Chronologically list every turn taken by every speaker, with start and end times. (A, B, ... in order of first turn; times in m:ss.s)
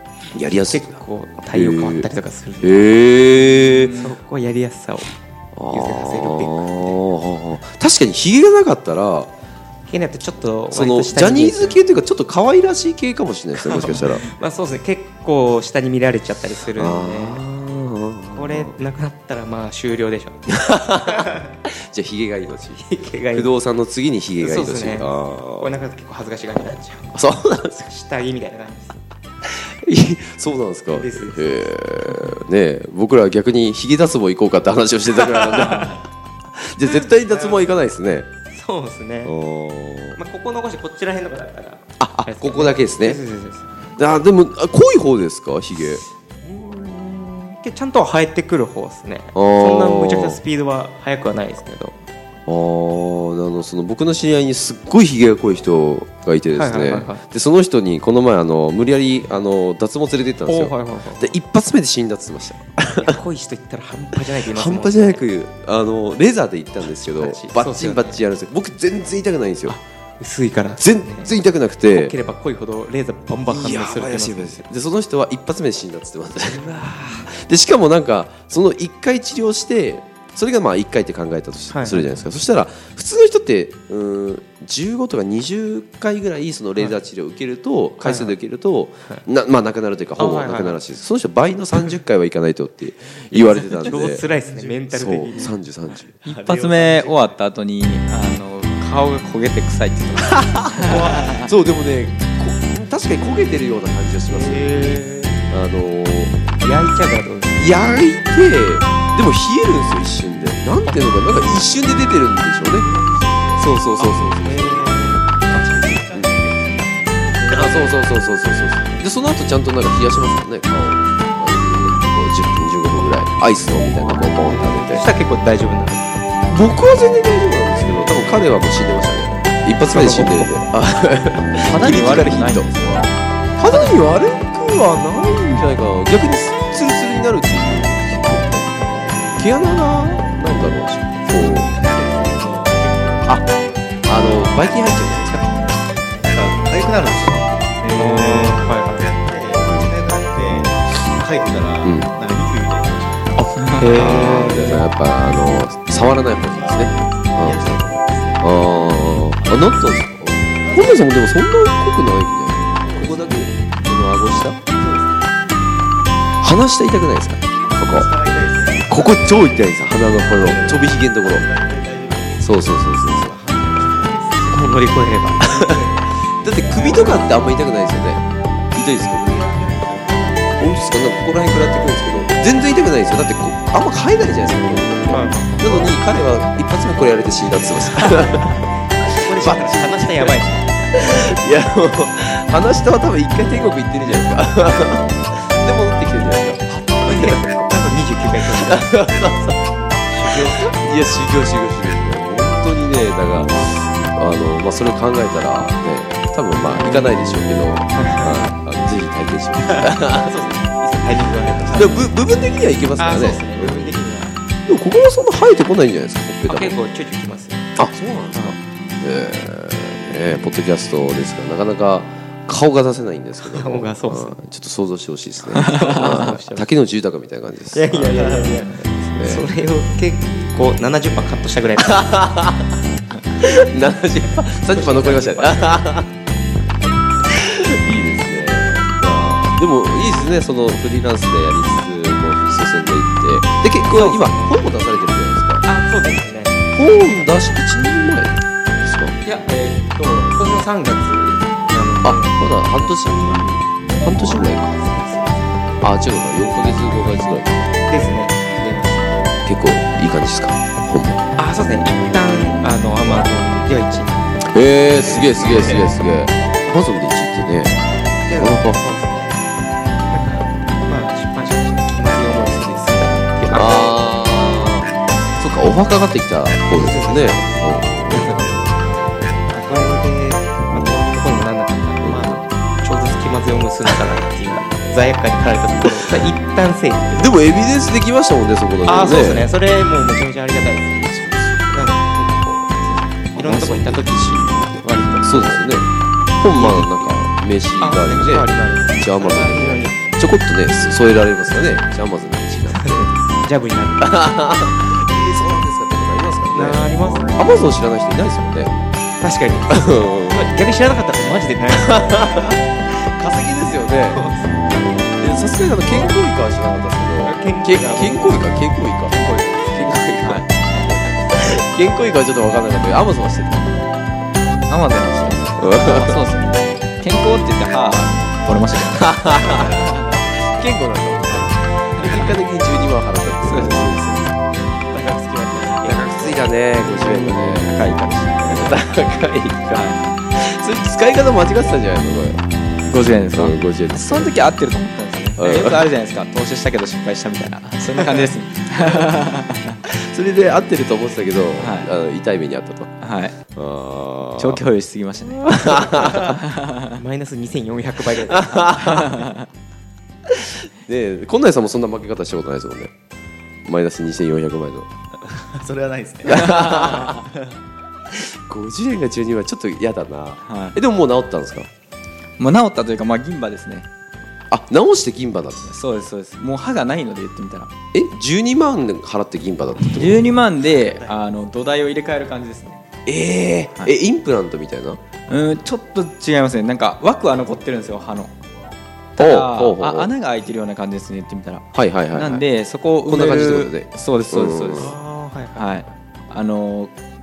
0:00.3-0:04.0 A
0:00.6-0:03.0 B
0:03.7-0:04.2 C
0:03.8-0:05.1 B
0:05.6-0:09.3 A
0:05.7-0:07.0 B
0:09.9-0:11.8 B
0:10.7-0:14.3 A
0:13.6-0:17.4 B
0:16.8-0:18.8 A
0:18.4-0:21.4 B
0:20.5-0:25.7 A
0:22.8-0:23.5 B
0:24.4-0:27.2 B
0:27.1-0:27.8 A
0:27.8-0:29.0 B
0:29.7-0:36.0 A
0:30.9-0:32.3 B
0:36.6-0:38.3 A
0:36.8-0:37.7 B
0:38.5-0:39.3 B
0:39.2-0:40.2 A
0:40.2-0:43.8 B
0:42.0-0:43.2 A
0:44.0-0:46.0 A
0:46.4-0:52.0 B
0:49.3-0:50.4 A
0:52.5-1:03.2 A
0:56.5-0:57.2 B
1:00.4-1:01.4 B
1:02.9-1:05.2 B
1:04.4-1:09.8 A
1:06.9-1:08.2 B
1:09.7-1:14.6 B
1:10.8-1:12.1 A
1:13.5-1:34.2 A
1:21.7-1:22.2 B
1:28.0-1:28.4 B
1:30.2-1:30.8 B
1:33.3-1:35.5 B
1:34.2-1:34.9 D
1:34.9-1:36.1 A
1:36.2-1:37.4 D
1:36.2-1:41.5 C
1:40.8-1:41.4 D
1:40.8-1:45.0 A
1:44.3-1:45.4 B
1:45.5-1:46.4 A
1:46.6-1:47.7 B
1:47.6-1:52.9 A
1:50.9-1:51.5 B
1:52.8-1:53.9 D
1:53.6-1:56.4 A
1:54.0-1:55.4 B
1:55.5-1:57.9 D
1:57.4-1:57.9 B
1:57.5-2:05.1 A
2:04.5-2:06.2 B
2:06.5-2:12.8 A
2:09.9-2:10.5 B
2:11.6-2:13.2 C
2:13.6-2:18.7 A
2:18.8-2:19.4 D
2:19.4-2:21.7 A
2:21.2-2:33.5 D
2:24.1-2:25.5 A
2:27.9-2:29.1 B
2:29.6-2:30.0 A
2:30.5-2:30.9 A
2:31.8-2:32.2 A
2:33.4-2:34.8 B
2:33.6-2:34.2 C
2:33.9-2:44.6 A
2:34.3-2:34.8 D
2:36.4-2:38.6 D
2:40.5-2:41.1 D
2:42.7-2:43.7 D
2:44.7-2:45.4 D
2:46.4-2:48.1 A
2:47.9-2:57.8 D
2:48.9-2:51.5 A
2:52.4-2:53.4 A
2:54.4-2:55.5 B
2:56.4-2:58.2 A
2:58.7-2:59.4 A
2:59.0-3:02.4 D
3:00.6-3:08.6 A
3:05.1-3:06.0 B
3:08.0-3:08.7 D
3:09.0-3:10.7 B
3:09.3-3:10.4 A
3:09.5-3:10.0 D
3:11.0-3:17.4 A
3:17.0-3:19.1 B
3:18.4-3:19.6 A
3:20.1-3:20.9 B
3:20.3-3:30.3 A
3:26.8-3:27.2 B
3:27.9-3:28.6 B
3:29.7-3:32.1 B
3:31.7-3:34.0 A
3:33.0-3:34.4 B
3:34.7-3:36.8 A
3:36.5-3:37.7 B
3:37.8-3:49.5 A
3:43.5-3:44.4 B
3:45.5-3:46.7 B
3:47.7-3:52.2 B
3:52.0-3:52.7 A
3:53.4-3:56.1 A
3:54.7-3:55.9 B
3:57.3-4:05.7 A
4:03.8-4:04.6 B
4:05.6-4:07.4 B
4:06.7-4:09.2 A
4:09.2-4:15.6 B
4:12.0-4:14.8 A
4:15.8-4:17.7 A
4:17.8-4:19.2 B
4:19.5-4:21.2 A
4:21.4-4:24.5 B
4:24.5-4:28.8 A
4:25.1-4:26.0 B
4:28.2-4:29.4 B
4:30.1-4:34.0 B
4:33.5-4:38.8 A
4:36.7-4:38.6 B
4:39.4-4:47.4 B
4:40.7-4:41.0 A
4:42.0-4:42.5 A
4:47.2-4:49.5 A
4:48.8-4:55.7 B
4:51.1-4:51.9 A
4:53.3-4:55.9 A
4:56.4-5:03.1 A
4:56.4-4:57.2 B
4:57.8-5:00.0 B
5:02.7-5:04.3 B
5:04.0-5:08.8 A
5:06.5-5:07.5 B
5:09.2-5:12.6 B
5:09.7-5:10.5 A
5:11.8-5:14.2 A
5:14.1-5:15.1 B
5:15.2-5:20.5 A
5:15.9-5:16.2 B
5:17.2-5:18.6 B
5:20.0-5:21.3 C
5:21.3-5:23.9 A
5:24.7-5:30.1 C
5:25.6-5:26.2 A
5:28.9-5:34.0 A
5:29.4-5:29.7 B
5:32.0-5:32.3 C
5:33.4-5:34.4 C
5:34.5-5:36.5 B
5:35.7-5:37.8 A
5:37.0-5:38.8 C
5:38.4-5:42.4 A
5:39.7-5:40.0 C
5:42.9-5:49.8 C
5:43.3-5:44.3 A
5:45.4-5:45.9 A
5:49.9-5:53.0 A
5:51.6-5:51.9 C
5:53.0-5:53.4 C
5:53.5-5:54.6 A
5:54.4-5:57.0 C
5:55.4-5:56.3 A
5:55.6-5:56.2 B
5:57.0-5:59.1 B
5:58.1-5:59.2 A
5:59.0-5:59.4 C
6:00.3-6:02.9 A
6:03.6-6:04.9 A
6:05.4-6:07.6 D
6:06.3-6:07.2 A
6:08.1-6:11.7 A
6:10.4-6:10.8 C
6:12.4-6:13.9 C
6:14.5-6:15.7 A
6:15.7-6:17.7 C
6:17.9-6:20.3 A
6:19.9-6:22.8 C
6:20.7-6:21.2 D
6:23.1-6:25.0 A
6:25.3-6:28.3 C
6:29.2-6:35.0 C
6:29.2-6:30.1 A
6:31.7-6:32.5 A
6:33.0-6:35.0 A
6:34.8-6:35.8 B
6:35.6-6:36.9 C